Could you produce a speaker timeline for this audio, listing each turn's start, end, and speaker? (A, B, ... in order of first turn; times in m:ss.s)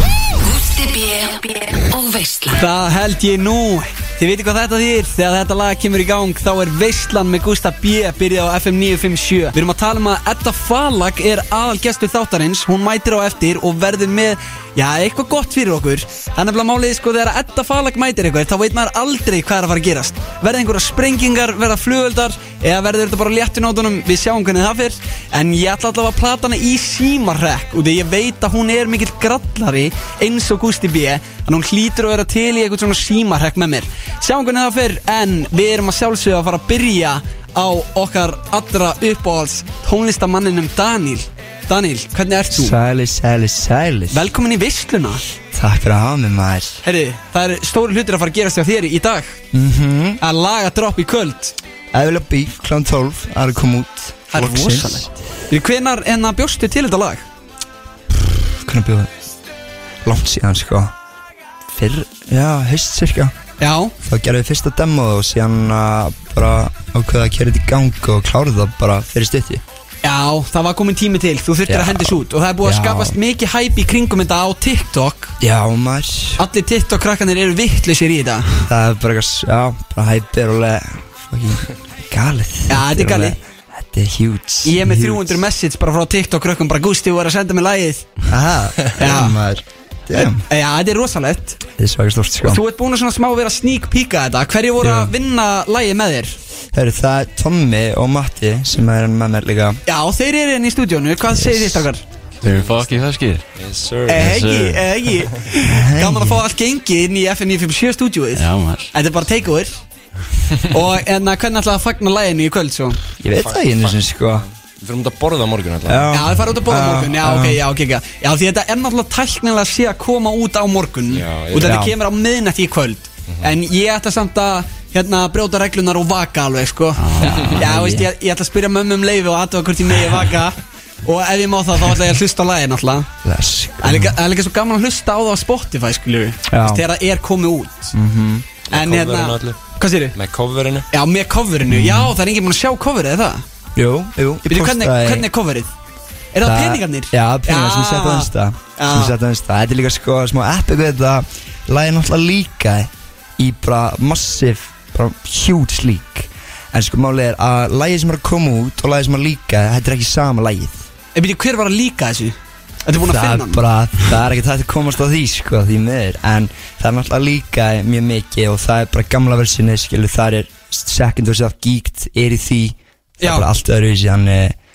0:00.4-0:02.7 A
0:02.6-0:42.8 B
0:42.5-0:44.2 C
0:44.1-0:45.2 B
0:45.5-0:46.8 C
0:46.8-0:49.4 B
0:49.5-0:50.2 C
0:50.2-0:51.6 B
0:51.9-0:55.1 C
0:54.3-0:57.2 B
0:58.1-0:59.1 C
1:00.0-1:00.9 C
1:01.7-1:03.4 C
1:03.6-1:03.9 B
1:04.0-1:09.6 C
1:10.0-1:15.4 B
1:11.7-1:13.2 C
1:15.4-1:16.4 C
1:16.4-1:18.7 B
1:18.7-1:25.4 C
1:22.7-1:23.4 B
1:24.6-1:28.2 B
1:28.3-1:30.4 C
1:29.0-1:29.4 B
1:30.1-1:31.6 B
1:31.8-1:32.6 C
1:32.4-1:36.4 B
1:34.8-1:35.1 C
1:36.7-1:39.8 C
1:39.9-1:42.0 B
1:41.3-1:41.8 C
1:42.4-1:43.4 D
1:42.5-1:42.9 E
1:43.6-1:44.5 E
1:44.1-1:49.7 B
1:44.2-1:44.9 D
1:45.6-1:46.4 C
1:48.4-1:48.9 D
1:50.7-1:53.0 B
1:53.2-1:54.4 C
1:53.4-1:54.0 E
1:54.8-1:56.2 E
1:55.9-1:57.6 C
1:56.1-2:07.0 B
2:01.1-2:01.8 E
2:01.6-2:02.0 C
2:07.0-2:07.5 D
2:07.2-2:08.1 C
2:07.6-2:13.1 B
2:13.2-2:14.2 C
2:13.8-2:17.9 B
2:16.5-2:16.8 C
2:17.9-2:18.5 C
2:18.7-2:19.6 E
2:18.7-2:20.2 B
2:20.2-2:20.9 E
2:20.9-2:23.4 B
2:21.7-2:22.1 C
2:23.8-2:25.3 C
2:24.5-2:25.7 B
2:26.3-2:29.2 B
2:26.4-2:40.8 C
2:41.2-2:43.6 B
2:43.0-2:54.6 C
2:53.2-2:53.5 B